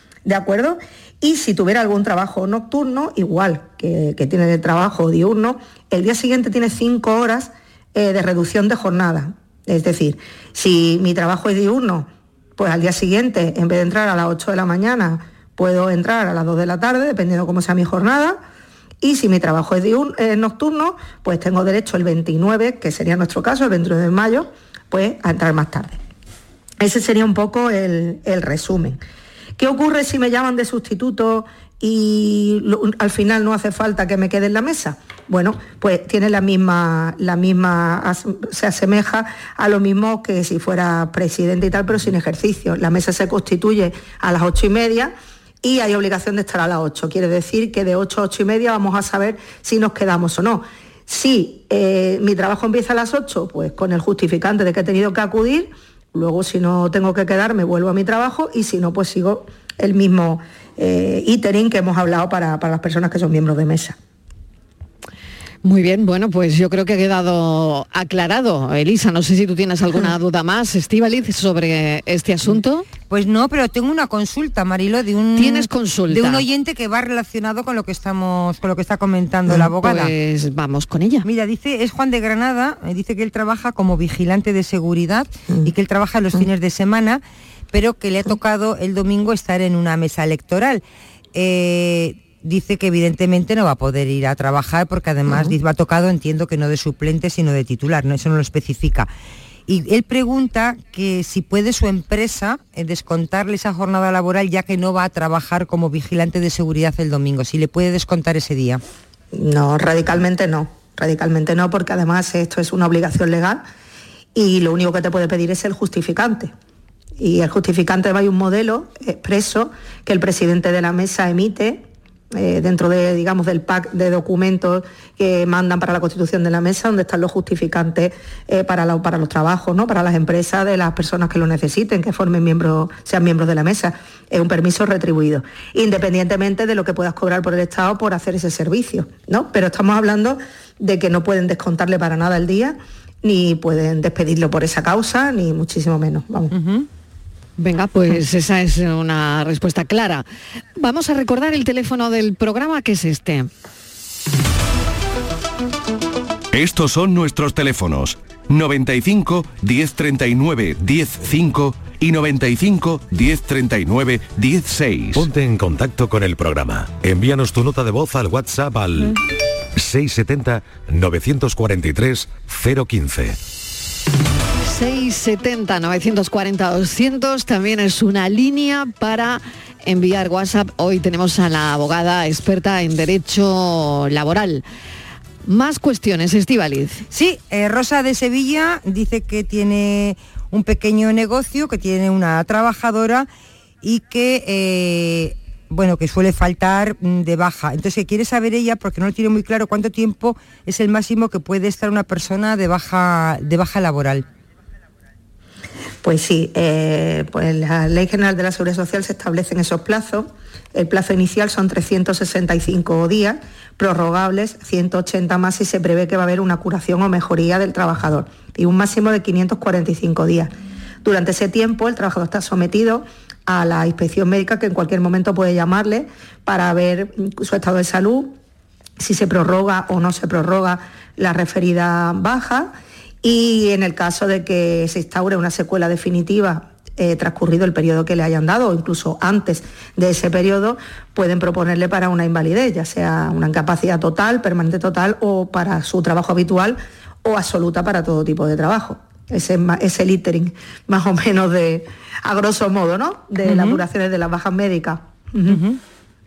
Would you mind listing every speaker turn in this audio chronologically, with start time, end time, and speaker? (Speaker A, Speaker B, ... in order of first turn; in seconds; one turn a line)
Speaker A: 0.2-18.4
Speaker A: 19.0-26.0
Speaker A: 26.8-29.0
Speaker A: 29.6-64.0
Speaker B: 65.6-72.9
Speaker C: 73.1-80.1
Speaker B: 75.3-76.5
Speaker B: 79.6-81.3
Speaker C: 81.2-87.2
Speaker C: 87.7-90.8
Speaker C: 91.3-99.1
Speaker A: 95.3-95.5
Speaker C: 99.7-108.8
Speaker A: 109.3-113.6
Speaker A: 114.3-116.5
Speaker A: 117.2-146.5
Speaker C: 146.5-146.9
Speaker B: 147.6-150.2
Speaker B: 150.8-153.5
Speaker D: 156.5-165.3
Speaker E: 165.1-169.2
Speaker E: 169.8-173.4
Speaker B: 174.6-184.6
Speaker B: 185.4-187.0
Speaker C: 187.1-193.3
Speaker C: 193.8-204.2
Speaker A: 206.0-220.5
Speaker A: 221.0-228.3
Speaker A: 229.0-255.6
Speaker C: 253.4-253.8
Speaker C: 255.5-255.8